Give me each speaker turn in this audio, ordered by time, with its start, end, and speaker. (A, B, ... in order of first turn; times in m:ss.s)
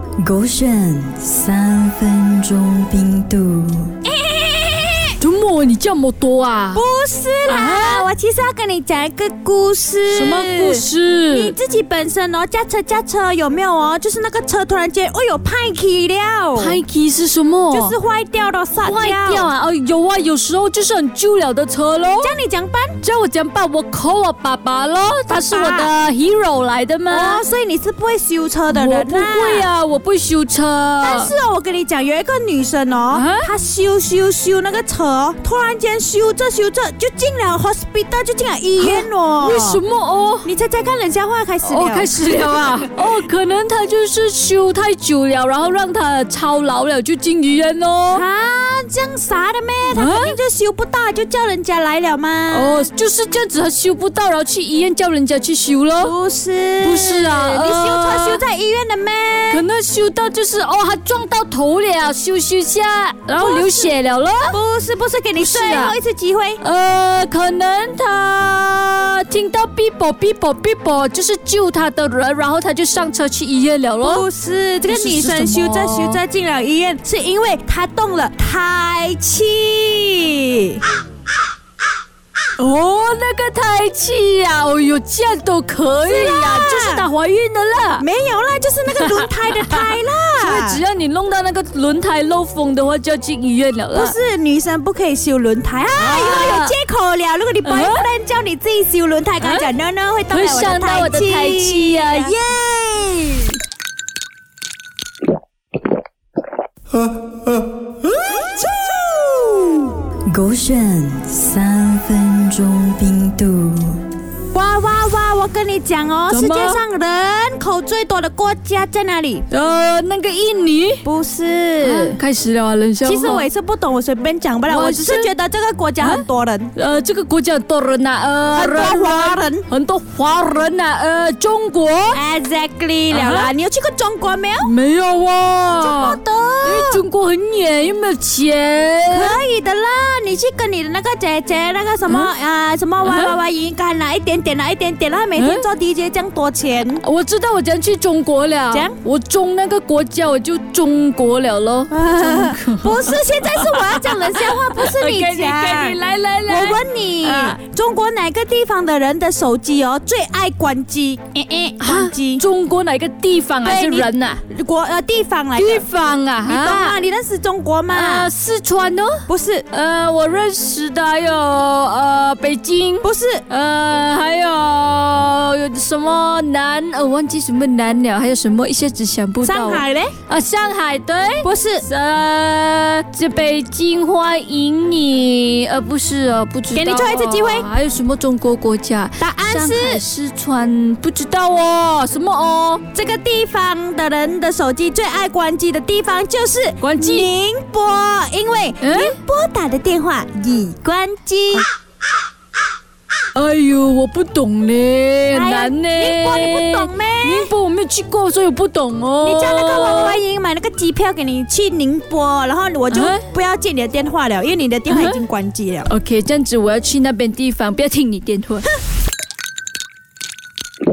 0:00.2-0:03.9 A
0:04.0-0:05.2 B
0:05.2-0:06.8 C
0:06.7-0:16.8 B
0:07.4-0:08.1 C
0:10.1-0:11.5 C
0:16.6-0:17.9 C
0:17.7-0:19.5 B
0:18.8-0:22.3 C
0:22.2-0:23.0 B
0:23.0-0:27.4 C
0:25.3-0:25.9 B
0:27.1-0:29.7 B
0:28.7-0:31.3 C
0:31.0-0:39.8 B
0:33.1-0:33.5 C
0:38.8-0:40.5 C
0:40.4-0:42.3 B
0:41.6-0:48.2 C
0:48.1-0:52.8 B
0:49.9-0:50.4 C
0:52.5-0:56.1 C
0:56.0-0:59.6 B
0:56.8-0:58.4 C
0:59.5-1:04.6 C
1:03.4-1:03.9 B
1:04.5-1:06.6 B
1:05.4-1:05.9 C
1:06.6-1:14.2 C
1:14.0-1:20.8 B
1:14.9-1:16.2 C
1:22.6-1:28.0 C
1:26.0-1:27.0 B
1:28.0-1:30.8 B
1:28.9-1:34.1 C
1:33.9-1:42.4 B
1:36.0-1:36.7 C
1:37.6-1:38.1 C
1:39.4-1:39.7 C
1:40.3-1:43.5 C
1:48.9-1:49.6 B
1:50.3-1:54.0 A
1:54.5-1:59.4 B
1:56.3-1:56.8 C
1:59.5-2:01.0 C
2:01.0-2:02.2 B
2:01.8-2:03.4 C
2:03.0-2:06.7 B
2:04.7-2:05.3 C
2:06.0-2:12.2 C
2:08.5-2:09.7 B
2:12.1-2:14.7 B
2:13.1-2:13.5 C
2:14.6-2:19.4 C
2:15.8-2:17.0 B
2:19.1-2:27.0 B
2:23.0-2:23.3 C
2:25.4-2:25.6 C
2:27.0-2:37.6 C
2:28.7-2:29.0 B
2:31.9-2:42.4 B
2:41.3-2:44.4 C
2:43.6-2:45.8 B
2:45.6-2:47.0 C
2:46.4-2:48.3 B
2:47.9-3:12.8 C
2:49.3-2:49.6 B
2:53.0-2:53.4 B
2:59.4-3:00.2 B
3:01.4-3:01.9 B
3:06.7-3:07.7 B
3:09.2-3:10.0 B
3:12.9-3:21.7 B
3:16.8-3:17.3 C
3:18.8-3:19.1 C
3:23.3-3:30.2 C
3:25.3-3:27.5 B
3:29.2-3:35.9 B
3:32.9-3:33.2 C
3:34.9-3:35.2 C
3:35.9-3:38.7 C